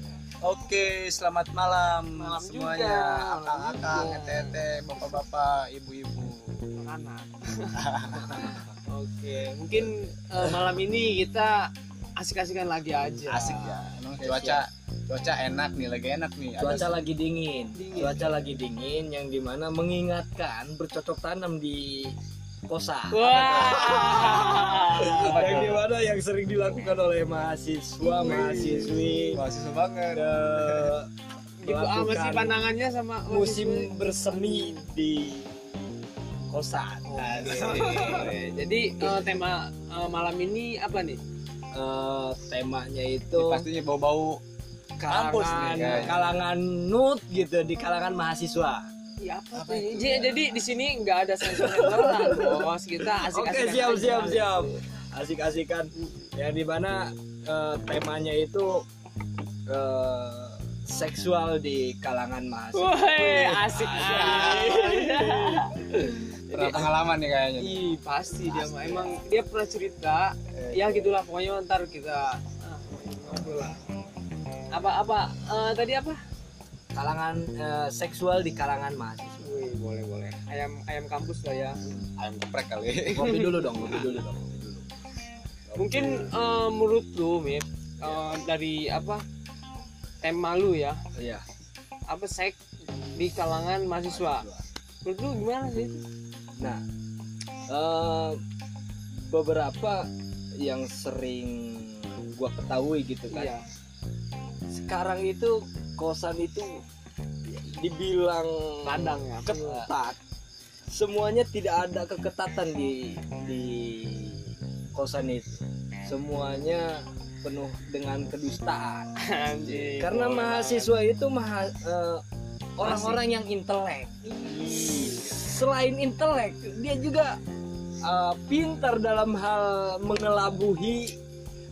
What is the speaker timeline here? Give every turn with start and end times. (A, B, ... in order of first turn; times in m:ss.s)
0:00.4-0:06.7 A
0:02.2-0:05.2 B
0:06.8-0:07.8 B
0:07.8-0:08.6 A
0:08.2-0:08.6 C
0:08.9-0:13.7 B
0:13.3-0:17.0 A
0:13.8-0:14.6 C
0:16.6-0:22.2 C
0:17.8-0:18.3 B
0:22.7-0:29.4 C
0:23.1-0:25.8 B
0:23.3-0:24.4 A
0:25.1-0:25.9 A
0:28.0-0:29.3 B
0:28.2-0:31.0 A
0:30.1-0:31.1 C
0:31.6-0:34.8 B
0:31.6-0:32.6 C
0:33.3-0:35.5 C
0:36.5-0:38.4 C
0:37.1-0:41.2 B
0:37.2-0:38.2 A
0:41.7-0:43.7 C
0:43.3-0:44.4 A
0:45.0-0:48.9 C
0:45.0-0:46.2 A
0:45.5-0:46.2 B
0:49.2-0:54.8 B
0:49.5-0:50.6 A
0:51.4-0:52.7 C
0:53.2-0:58.8 C
0:56.0-0:56.3 B
0:59.7-1:05.7 C
1:02.7-1:05.8 B
1:03.8-1:04.8 A
1:06.5-1:07.9 A
1:06.5-1:06.8 B
1:07.6-1:13.8 B
1:08.4-1:09.2 C
1:10.6-1:11.1 A
1:14.7-1:16.2 B
1:17.0-1:19.6 C
1:19.4-1:21.8 B
1:22.2-1:23.6 A
1:23.1-1:24.8 C
1:23.2-1:24.0 B
1:25.8-1:29.2 B
1:25.9-1:26.3 C
1:30.2-1:31.0 B
1:31.2-1:31.4 C
1:32.1-1:32.6 B
1:33.1-1:34.5 B
1:34.1-1:34.6 C
1:35.0-1:36.0 B
1:37.7-1:38.4 C
1:39.2-1:40.0 C
1:40.6-1:43.5 C
1:43.3-1:43.6 B
1:44.7-1:46.8 C
1:47.5-1:50.2 C
1:48.8-1:49.9 B
1:50.9-1:59.1 C
1:59.2-2:00.9 B
1:59.6-2:00.0 A
2:00.0-2:02.2 C
2:02.8-2:07.4 C
2:02.8-2:03.2 B
2:04.6-2:05.4 B
2:08.0-2:11.1 C